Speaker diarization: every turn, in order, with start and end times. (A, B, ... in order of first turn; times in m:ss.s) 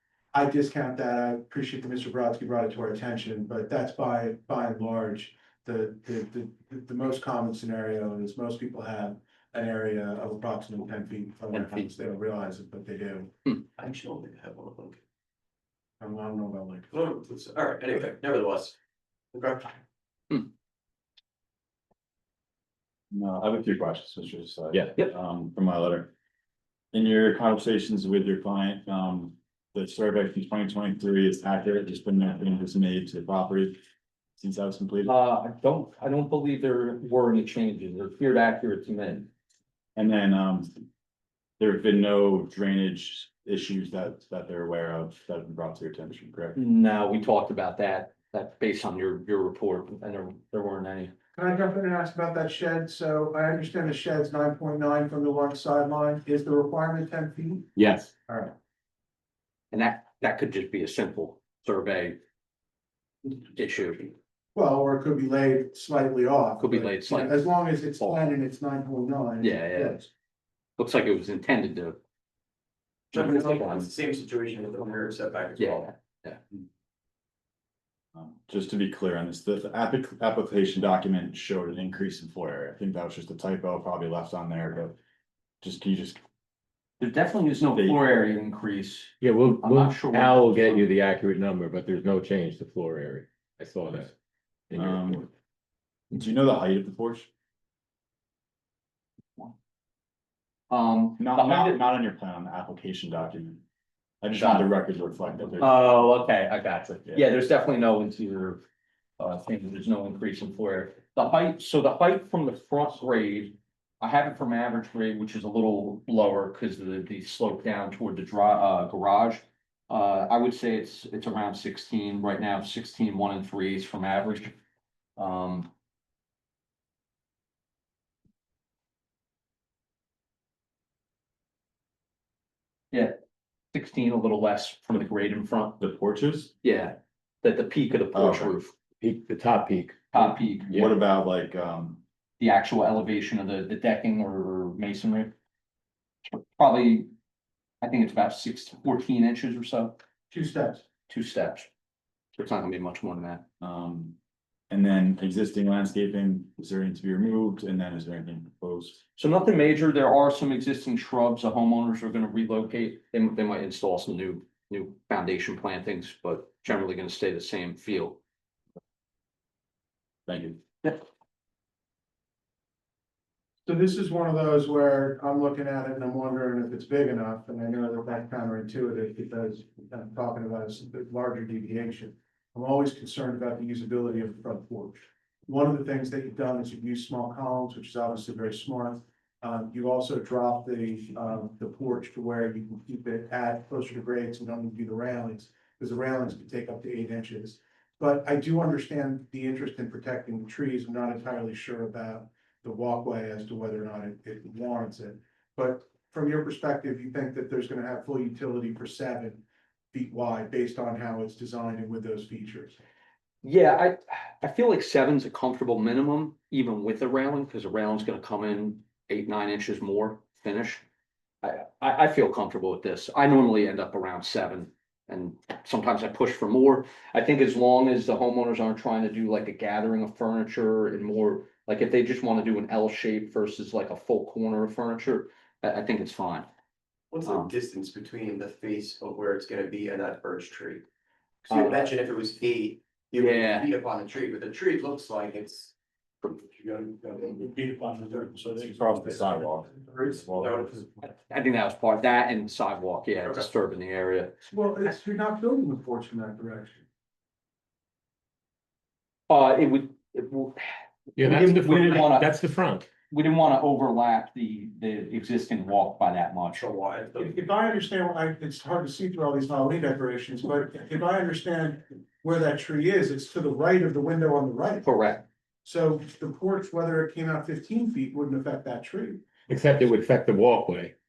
0:00.3-0:13.3 A
0:11.5-0:11.9 B
0:13.8-0:15.0 C
0:16.0-0:16.9 A
0:16.9-0:18.8 C
0:19.3-0:19.8 C
0:23.1-0:26.1 D
0:26.9-0:33.8 D
0:34.4-0:35.1 D
0:35.0-0:39.3 B
0:40.0-0:40.8 D
0:41.6-0:46.6 D
0:46.6-0:51.1 B
0:51.4-0:57.7 A
0:57.8-0:58.1 E
0:58.3-0:58.6 A
0:59.7-1:02.2 B
1:03.5-1:04.1 B
1:04.6-1:10.1 A
1:06.6-1:08.2 B
1:09.4-1:10.0 B
1:10.8-1:12.0 B
1:13.1-1:13.9 B
1:13.1-1:15.9 C
1:15.6-1:16.4 B
1:18.2-1:25.0 D
1:25.6-1:26.2 D
1:27.0-1:30.9 B
1:27.8-1:28.0 D
1:29.2-1:34.1 E
1:34.7-1:35.2 E
1:34.8-1:35.3 D
1:36.1-1:37.3 D
1:40.7-1:41.8 B
1:41.2-1:43.6 D
1:44.2-1:45.8 D
1:44.3-1:44.7 B
1:45.6-1:48.6 B
1:49.2-2:04.5 B
2:05.2-2:05.7 B
2:13.7-2:15.8 B
2:15.8-2:16.5 D
2:16.6-2:18.7 B
2:18.1-2:18.6 D
2:19.0-2:20.1 E
2:20.1-2:20.7 B
2:20.7-2:22.0 D
2:22.4-2:25.3 B
2:26.3-2:27.1 B
2:27.8-2:30.0 B
2:30.3-2:30.8 A
2:31.1-2:31.7 B
2:32.4-2:33.4 B
2:33.6-2:34.2 D
2:34.7-2:39.0 D
2:39.2-2:48.2 B
2:50.3-2:50.6 D
2:53.7-3:32.8 A
3:33.4-3:40.8 B
3:41.4-3:56.5 B
3:57.1-4:00.8 C
3:57.2-3:57.5 B
4:01.5-4:07.5 C
4:01.5-4:01.9 B
4:03.2-4:03.7 B
4:07.4-4:08.8 A
4:08.6-4:10.6 D
4:09.8-4:10.9 C
4:11.0-4:14.4 B
4:14.5-4:16.8 A
4:19.3-4:22.4 B
4:21.2-4:22.9 E
4:23.1-4:26.6 B
4:26.6-4:27.4 C
4:27.2-4:34.9 A
4:34.8-4:35.2 B
4:35.6-4:39.2 A
4:39.5-4:40.9 E